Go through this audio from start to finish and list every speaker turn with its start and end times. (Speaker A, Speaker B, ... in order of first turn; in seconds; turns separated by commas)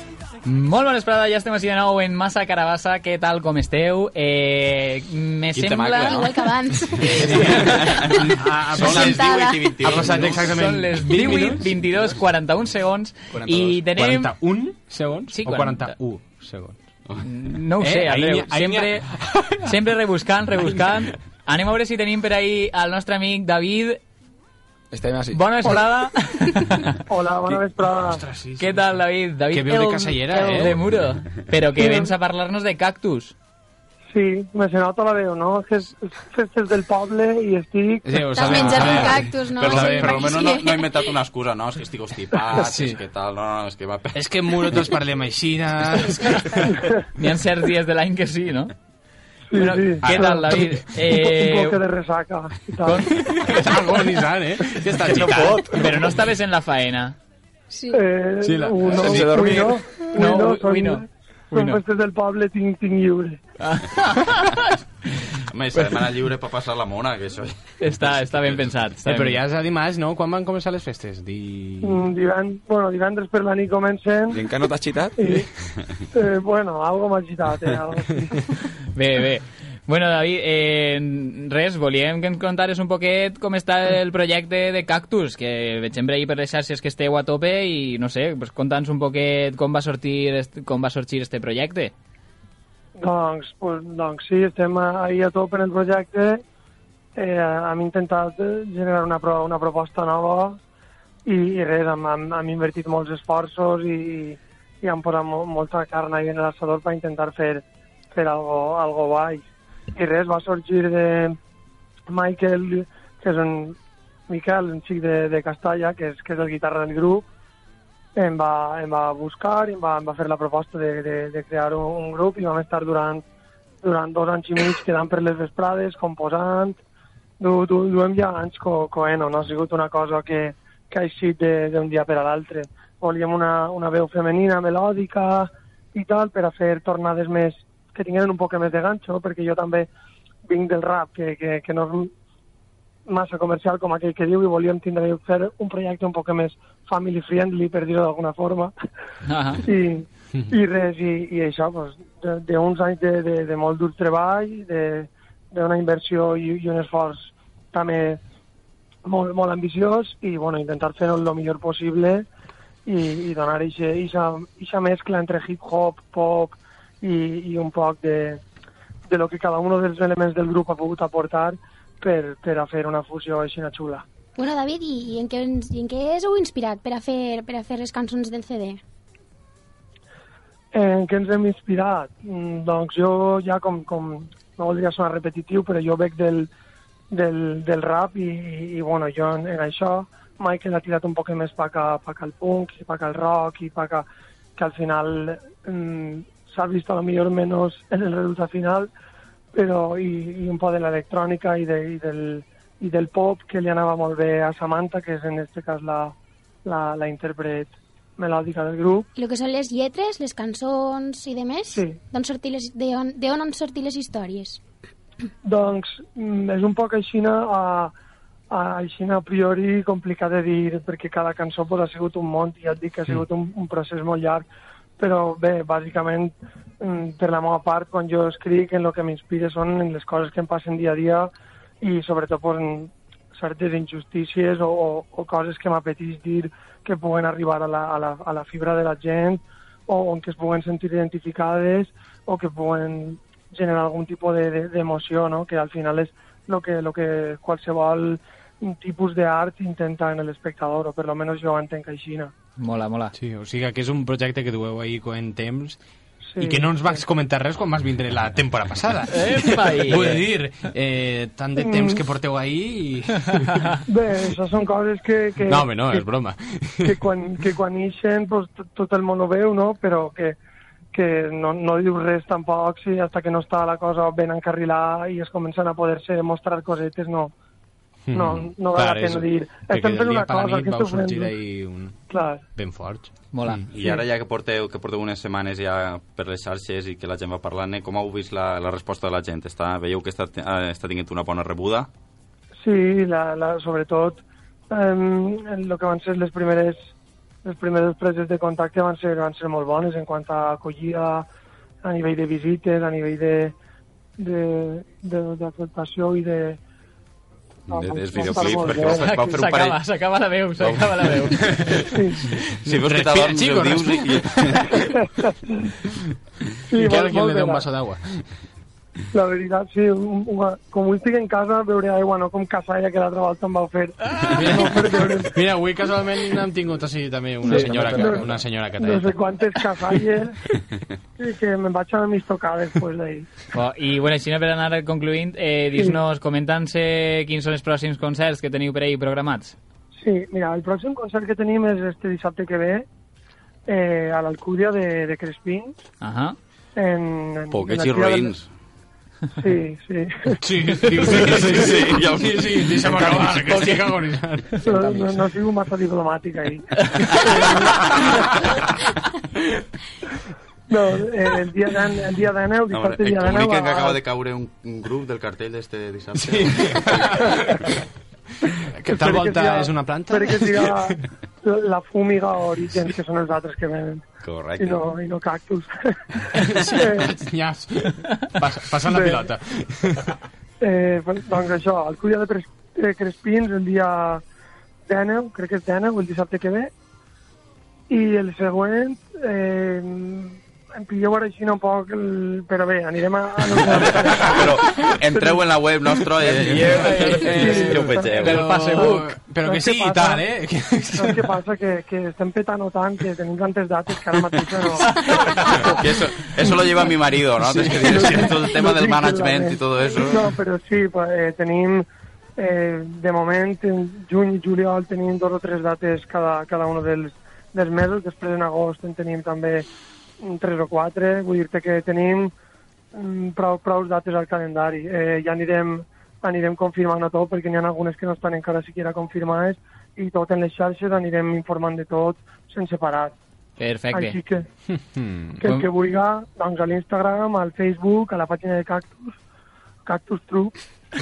Speaker A: 0.4-6.3, Speaker B: 5.5-6.3, Speaker C: 6.0-7.3, Speaker B: 7.0-10.4, Speaker A: 7.0-7.8, Speaker D: 7.2-11.7, Speaker C: 8.8-9.9, Speaker A: 10.2-14.3, Speaker E: 13.3-13.8, Speaker D: 13.9-16.8, Speaker A: 15.3-15.9, Speaker A: 17.2-24.0, Speaker D: 17.8-19.7, Speaker E: 24.9-25.8, Speaker A: 25.3-27.0, Speaker F: 27.1-28.2, Speaker D: 28.1-28.9, Speaker A: 28.6-33.3, Speaker D: 29.5-30.8, Speaker F: 31.8-32.1, Speaker F: 34.1-38.2, Speaker D: 38.0-40.3, Speaker C: 38.3-41.0, Speaker B: 38.6-44.8, Speaker D: 42.5-43.0, Speaker D: 44.1-46.8, Speaker A: 47.1-48.7, Speaker F: 49.5-50.4, Speaker A: 49.5-51.8, Speaker D: 50.0-50.9, Speaker F: 51.0-53.1, Speaker A: 52.9-53.7, Speaker D: 53.1-55.7, Speaker E: 55.0-55.8, Speaker A: 55.7-57.1, Speaker C: 57.7-58.0, Speaker F: 57.9-63.4, Speaker D: 58.4-59.7, Speaker E: 58.9-59.8, Speaker A: 60.1-61.8, Speaker A: 63.6-65.2, Speaker B: 65.5-68.7, Speaker A: 67.8-69.4, Speaker D: 69.0-72.0, Speaker F: 71.8-74.4, Speaker E: 74.3-75.5, Speaker F: 75.2-75.5, Speaker F: 76.1-78.4, Speaker A: 78.9-91.9, Speaker F: 93.0-96.4, Speaker F: 97.1-100.6, Speaker F: 101.2-111.4, Speaker F: 112.1-113.8, Speaker F: 114.3-117.3, Speaker F: 118.1-123.2, Speaker F: 123.8-126.8, Speaker F: 127.4-139.9, Speaker F: 140.4-142.1, Speaker F: 143.1-148.7, Speaker A: 149.3-149.6, Speaker F: 149.6-158.2, Speaker F: 159.0-162.2, Speaker F: 162.8-168.4, Speaker F: 169.1-174.0, Speaker C: 174.3-178.8, Speaker F: 180.7-186.5, Speaker F: 187.1-198.9, Speaker F: 199.5-209.1, Speaker C: 209.1-214.6, Speaker F: 211.7-212.0, Speaker F: 215.4-217.9, Speaker F: 218.5-224.4, Speaker F: 225.0-231.3, Speaker F: 231.8-252.3, Speaker A: 252.6-253.1, Speaker D: 253.1-255.8, Speaker F: 256.3-257.0, Speaker D: 256.4-263.8, Speaker A: 259.1-260.2, Speaker F: 261.6-262.0, Speaker F: 263.9-266.1, Speaker D: 265.5-267.0, Speaker F: 266.8-270.4, Speaker F: 270.9-277.3, Speaker D: 278.1-282.0, Speaker F: 278.1-281.3, Speaker F: 282.1-282.4, Speaker D: 282.6-283.6, Speaker A: 283.3-283.6, Speaker B: 283.7-291.9, Speaker F: 292.6-296.8, Speaker F: 297.4-301.2, Speaker F: 301.8-303.5, Speaker F: 304.2-306.6, Speaker B: 307.7-309.8, Speaker F: 307.7-309.1, Speaker A: 308.8-311.8, Speaker B: 310.6-311.2, Speaker D: 311.4-311.8, Speaker F: 311.9-312.2, Speaker B: 312.6-314.8, Speaker D: 312.8-314.6, Speaker F: 314.9-315.7, Speaker F: 316.7-317.6, Speaker D: 316.7-318.2, Speaker F: 319.1-325.4, Speaker D: 324.3-329.2, Speaker E: 327.4-328.4, Speaker F: 327.5-330.4, Speaker F: 331.2-333.3, Speaker A: 333.5-339.6, Speaker F: 340.0-342.9, Speaker F: 343.7-345.8, Speaker A: 346.0-346.4, Speaker F: 346.8-348.4, Speaker B: 347.5-348.5, Speaker F: 349.4-350.4, Speaker D: 350.4-354.7, Speaker B: 351.0-353.4, Speaker A: 353.5-353.9, Speaker F: 354.6-358.4, Speaker E: 354.7-355.1, Speaker F: 360.7-364.0, Speaker B: 362.7-367.4, Speaker D: 366.2-367.6, Speaker D: 368.6-371.0, Speaker F: 368.9-374.1, Speaker B: 374.2-374.8, Speaker F: 374.6-376.0, Speaker D: 376.3-380.1, Speaker F: 376.7-377.1, Speaker F: 378.9-379.3, Speaker F: 380.6-384.2, Speaker F: 384.9-386.7, Speaker F: 387.9-395.4, Speaker B: 394.2-398.4, Speaker E: 396.2-397.3, Speaker D: 396.5-401.3, Speaker A: 396.8-397.7, Speaker F: 397.3-400.2, Speaker A: 398.3-399.1, Speaker F: 400.9-405.8, Speaker D: 405.4-405.7, Speaker B: 405.6-410.4, Speaker D: 407.4-408.3, Speaker F: 407.9-411.8, Speaker F: 412.4-419.7, Speaker F: 420.2-422.3, Speaker F: 422.9-433.1, Speaker A: 433.6-434.2, Speaker F: 433.9-434.4, Speaker D: 434.7-435.4, Speaker F: 435.4-439.2, Speaker F: 439.9-440.6